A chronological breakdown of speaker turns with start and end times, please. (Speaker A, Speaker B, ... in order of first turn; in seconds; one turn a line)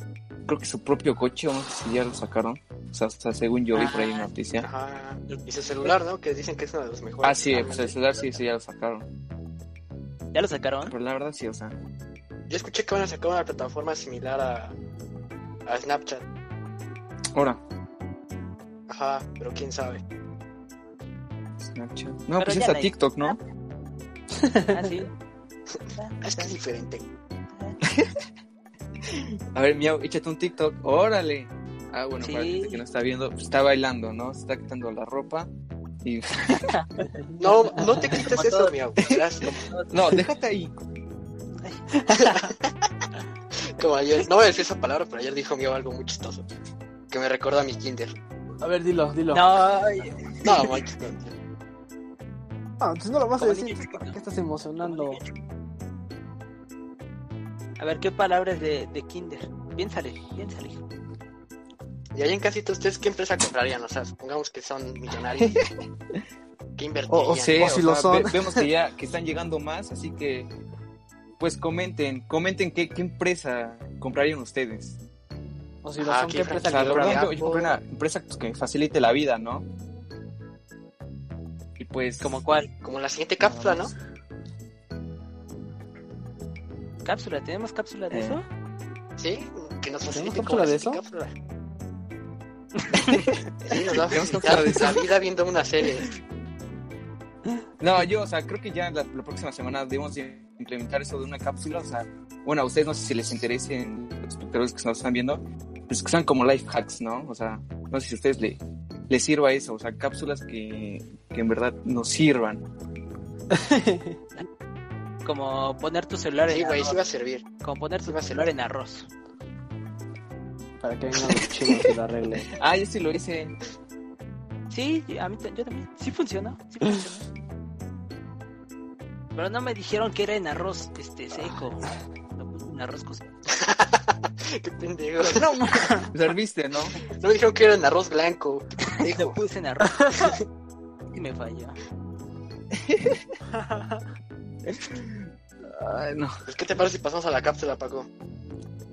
Speaker A: 0.4-4.7
Speaker B: 3.7-4.3
Speaker C: 4.6-8.0
Speaker B: 5.3-6.0
Speaker A: 7.2-9.1
Speaker B: 10.3-10.9
Speaker A: 10.8-11.8
Speaker C: 12.5-14.7
Speaker C: 15.7-16.2
Speaker A: 17.3-17.6
Speaker C: 18.9-20.0
Speaker A: 21.6-23.4
Speaker B: 22.4-23.4
Speaker D: 24.4-24.8
Speaker B: 24.7-25.1
Speaker B: 25.9-26.6
Speaker C: 26.2-27.0
Speaker B: 27.5-27.8
Speaker A: 27.9-28.2
Speaker A: 29.0-35.5
Speaker B: 32.2-32.8
Speaker A: 36.0-36.8
Speaker C: 37.4-39.6
Speaker B: 38.0-40.0
Speaker A: 39.9-40.8
Speaker C: 42.1-42.6
Speaker C: 43.7-46.5
Speaker C: 47.1-48.1
Speaker D: 48.6-49.4
Speaker B: 49.3-50.8
Speaker C: 50.4-51.3
Speaker D: 52.8-55.2
Speaker B: 53.4-54.1
Speaker B: 54.8-55.3
Speaker B: 57.8-60.8
Speaker C: 62.1-65.6
Speaker C: 66.8-67.7
Speaker D: 67.1-68.7
Speaker A: 67.3-70.5
Speaker A: 71.4-75.0
Speaker D: 75.8-77.2
Speaker C: 76.0-77.8
Speaker A: 76.6-79.7
Speaker A: 81.8-82.4
Speaker B: 82.2-82.7
Speaker C: 82.8-83.9
Speaker A: 83.4-84.0
Speaker B: 87.0-88.5
Speaker A: 88.1-88.4
Speaker C: 89.2-91.3
Speaker D: 90.1-91.0
Speaker B: 93.0-93.3
Speaker C: 93.6-96.1
Speaker A: 94.1-95.1
Speaker A: 97.8-112.6
Speaker D: 113.5-114.2
Speaker B: 115.2-117.0
Speaker C: 116.5-117.4
Speaker B: 117.6-119.1
Speaker C: 118.0-118.5
Speaker D: 120.8-122.5
Speaker A: 122.5-123.5
Speaker B: 124.7-127.2
Speaker B: 129.3-133.3
Speaker C: 133.6-135.5
Speaker B: 135.3-136.1
Speaker A: 136.1-136.9
Speaker C: 137.1-139.4
Speaker B: 139.0-140.1
Speaker B: 141.1-141.8
Speaker A: 142.7-143.2
Speaker D: 143.6-144.0
Speaker A: 144.6-146.4
Speaker C: 146.4-148.1